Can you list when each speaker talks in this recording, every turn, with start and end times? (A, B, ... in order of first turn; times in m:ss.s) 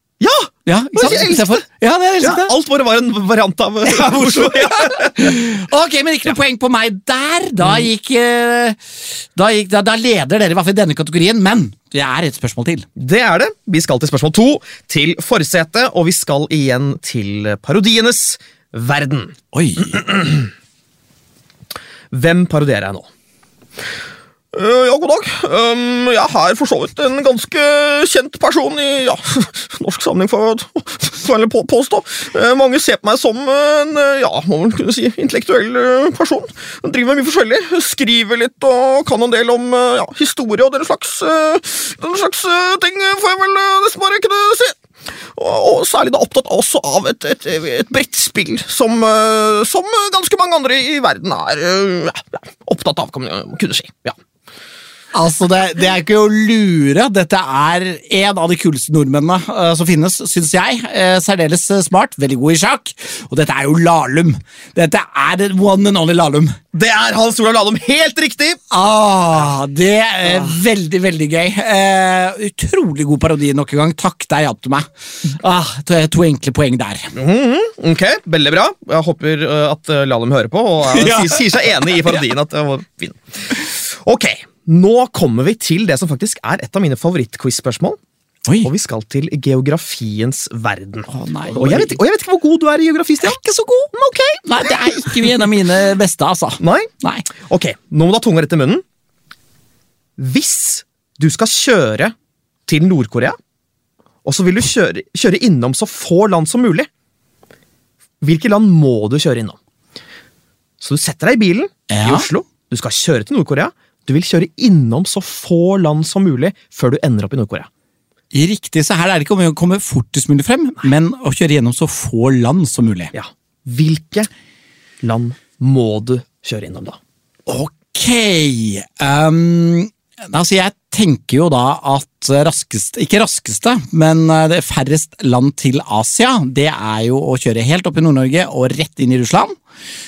0:00.2-0:01.6 A
0:00.7-0:02.5 B
0:02.2-0:05.4 A
0:03.9-0:08.8 B
0:07.6-0:07.9 A
0:09.4-0:12.9 B
0:13.0-0:19.4 A
0:19.5-0:20.0 B
0:19.9-0:20.5 A
0:22.1-0:23.1 A
0:24.5-0:44.8 A
0:45.4-0:54.2 A
0:55.1-1:06.6 B
1:06.7-1:08.6 A
1:08.7-1:17.1 B
1:10.2-1:10.5 A
1:17.2-1:28.0 A
1:20.9-1:22.2 B
1:28.5-1:28.7 B
1:28.6-1:33.4 A
1:31.1-1:32.0 B
1:33.2-1:33.9 B
1:33.9-1:34.7 A
1:34.4-1:37.3 B
1:36.6-1:36.9 A
1:37.5-1:38.8 A
1:40.2-1:42.1 A
1:42.7-1:43.4 A
1:44.2-1:46.9 A
1:48.2-1:49.6 A
1:50.8-1:57.7 A
1:51.9-1:52.3 B
1:58.3-2:03.1 B
2:03.1-2:04.3 A
2:05.0-2:07.0 A
2:07.5-2:19.6 B